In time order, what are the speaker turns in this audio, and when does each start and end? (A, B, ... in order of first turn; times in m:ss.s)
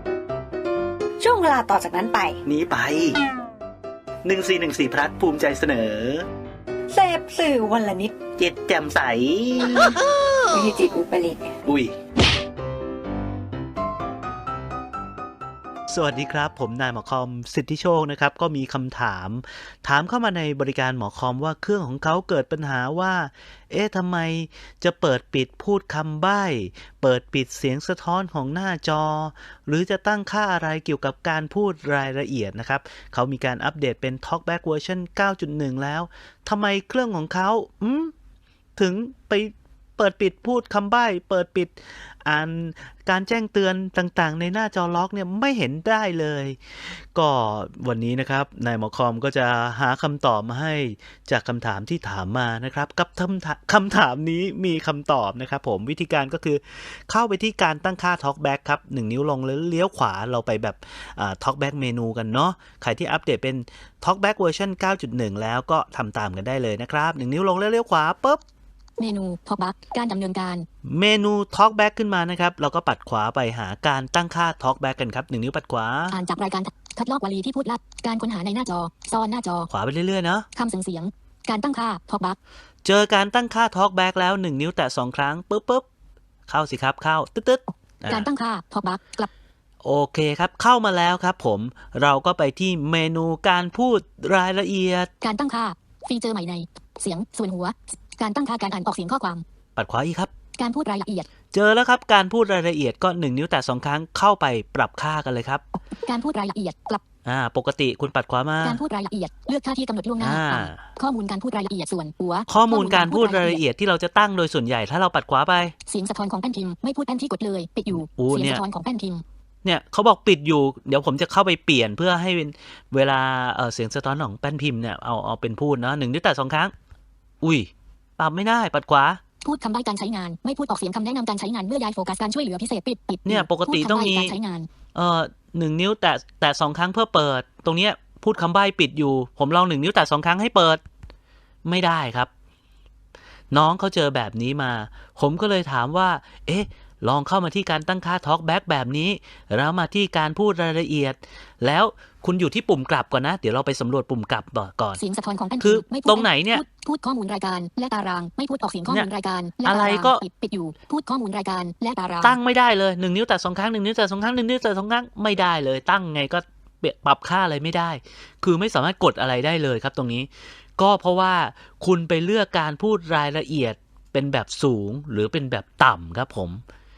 0:01.2-0:02.4 A
0:02.4-0:03.2 B
0:04.2-0:06.2 B
0:06.9-0:08.1 A
0:08.4-0:10.5 B
0:10.5-0:11.5 A
0:11.6-0:11.9 B
0:15.9-0:38.1 B
0:38.8-0:46.6 B
0:47.1-1:08.4 B
1:09.0-1:10.7 C
1:10.8-1:16.2 B
1:16.1-1:19.7 C
1:19.7-1:20.5 B
1:20.6-1:22.4 C
1:22.8-1:25.8 B
1:26.5-1:28.2 B
1:28.0-1:29.3 C
1:29.8-1:35.1 B
1:35.2-1:39.4 C
1:39.8-1:40.3 B
1:40.6-1:41.3 C
1:41.5-1:45.6 B
1:45.9-1:47.0 C
1:47.2-1:48.8 B
1:48.6-1:53.6 C
1:50.2-1:50.8 B
1:52.5-1:55.7 B
1:55.9-1:59.2 C
1:58.2-1:58.6 B
1:59.6-2:06.7 B
2:07.4-2:09.2 B
2:09.4-2:14.7 C
2:13.2-2:14.3 B
2:14.9-2:20.8 B
2:21.6-2:22.3 B
2:23.5-2:35.0 B
2:35.0-2:42.4 C
2:35.6-2:36.6 B
2:39.6-2:40.2 B
2:42.2-2:56.6 B